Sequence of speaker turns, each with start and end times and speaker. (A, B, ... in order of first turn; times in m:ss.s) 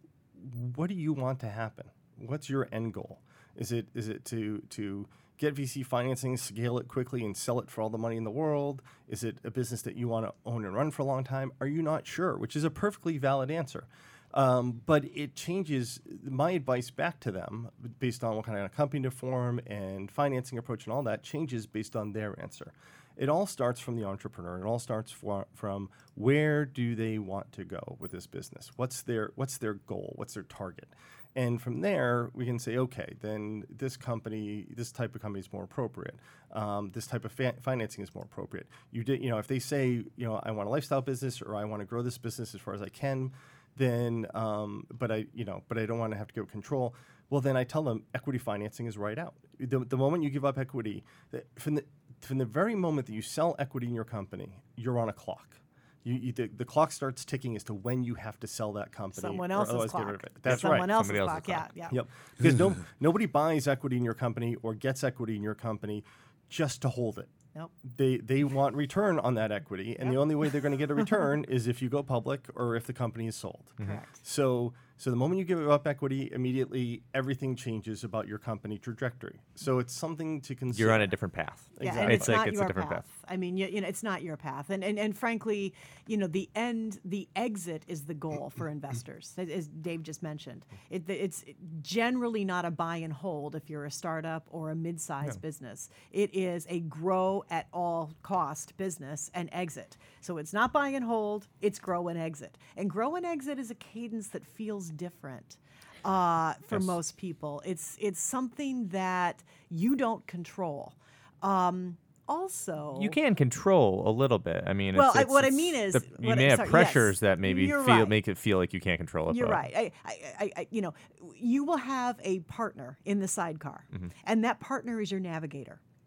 0:00.4-1:01.0 A
0:59.1-1:02.0 B
1:00.5-1:01.7 C
1:01.9-1:21.1 A
1:13.8-1:14.2 B
1:20.7-1:23.0 C
1:21.8-1:22.4 A
1:21.8-1:53.2 B
1:53.0-1:59.6 C
1:54.9-1:58.2 B
1:59.3-2:05.8 B